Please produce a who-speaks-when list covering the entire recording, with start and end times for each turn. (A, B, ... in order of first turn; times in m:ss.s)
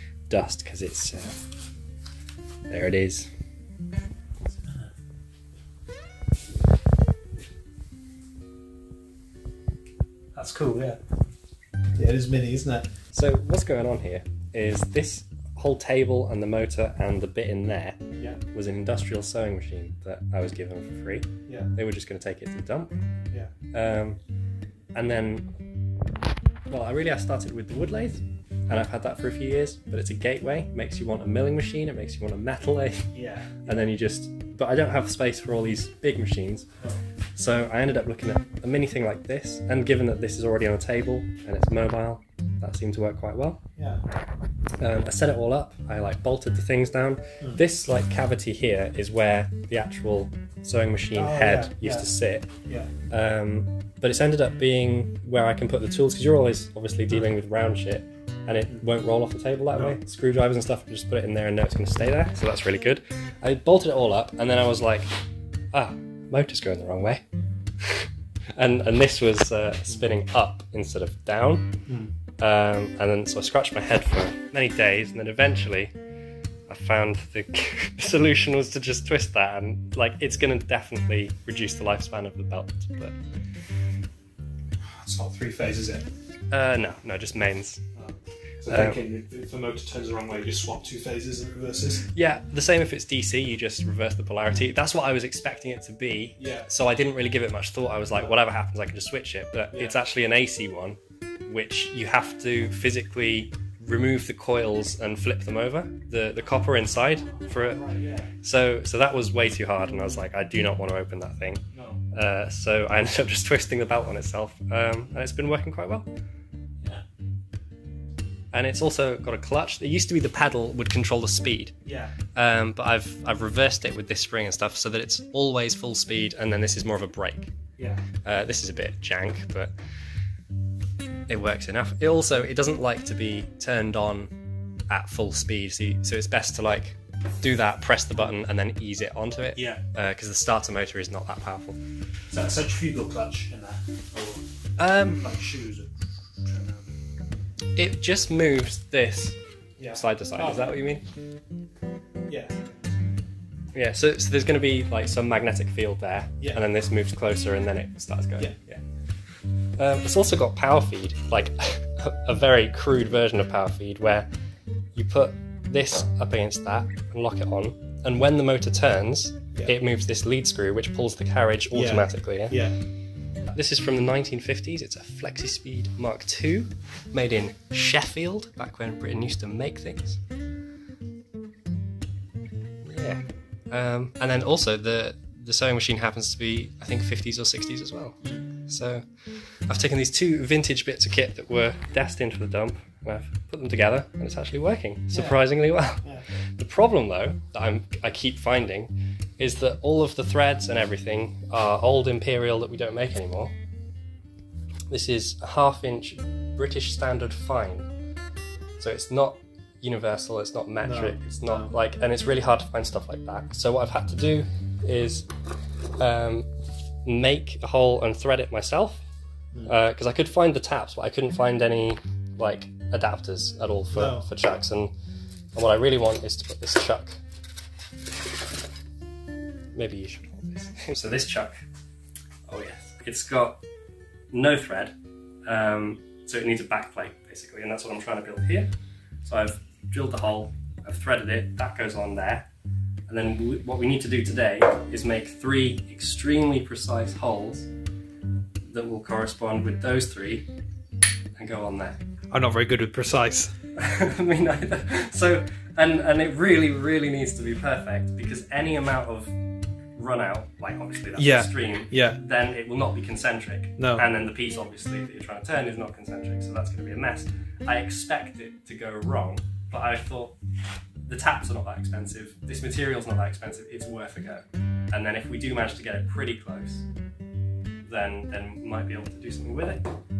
0:00.3-0:01.4 A
0:02.7-0:03.3 A
0:04.6-0:04.9 B
0:10.3-0:11.0 B
0:12.0-0:12.9 B
0:13.1-0:18.0 A
0:18.5-0:22.9 A
0:21.5-0:21.7 B
0:23.7-0:24.2 A
0:24.9-0:25.4 A
0:26.7-0:33.1 A
0:33.1-0:33.6 B
0:33.6-0:36.7 A
0:37.4-0:43.6 A
0:43.8-0:44.0 B
0:44.8-0:52.5 A
0:51.1-0:52.1 B
0:52.6-0:52.9 B
0:53.1-1:05.1 A
1:05.7-1:07.2 A
1:07.8-1:11.7 A
1:11.9-1:12.1 B
1:12.4-1:15.9 A
1:16.7-1:23.1 A
1:24.8-1:26.1 B
1:26.5-1:27.8 A
1:27.9-1:32.1 B
1:28.7-1:29.0 A
1:32.1-1:47.8 A
1:36.4-1:36.7 B
1:39.7-1:40.0 B
1:47.4-1:48.3 B
1:48.4-1:56.1 A
1:51.7-1:52.0 B
1:58.5-2:01.7 A
2:01.8-2:02.1 B
2:02.3-2:07.5 A
2:07.8-2:08.0 B
2:08.2-2:09.7 A
2:11.3-2:14.3 A
2:14.9-2:21.8 A
2:19.5-2:19.8 B
2:22.3-2:24.4 B
2:24.8-2:25.3 A
2:25.2-2:25.9 B
2:26.4-2:26.9 B
2:27.8-2:29.4 A
2:29.8-2:30.7 B
2:29.9-2:31.0 A
2:32.3-2:32.9 B
2:33.7-2:38.8 A
2:39.8-2:44.3 A
2:44.9-2:52.6 A
2:51.7-2:52.8 B
2:53.5-3:00.2 A
3:02.8-3:23.5 A
3:08.2-3:08.5 B
3:15.1-3:15.4 B
3:24.9-3:27.9 A
3:28.8-3:35.3 A
3:30.8-3:31.7 B
3:36.0-3:36.5 A
3:37.0-3:39.0 A
3:39.6-3:44.9 A
3:43.9-3:44.3 B
3:45.5-3:47.2 A
3:49.7-3:51.5 A
3:52.5-3:53.6 A
3:54.3-3:54.9 A
3:55.5-3:58.7 A
3:59.2-4:02.5 A
4:03.1-4:07.7 A
4:08.6-4:10.5 A
4:11.4-4:12.0 A
4:12.3-4:13.5 B
4:13.8-4:19.3 A
4:20.0-4:30.4 A
4:21.2-4:22.2 B
4:23.8-4:24.0 B
4:31.1-4:36.8 A
4:37.8-4:39.8 A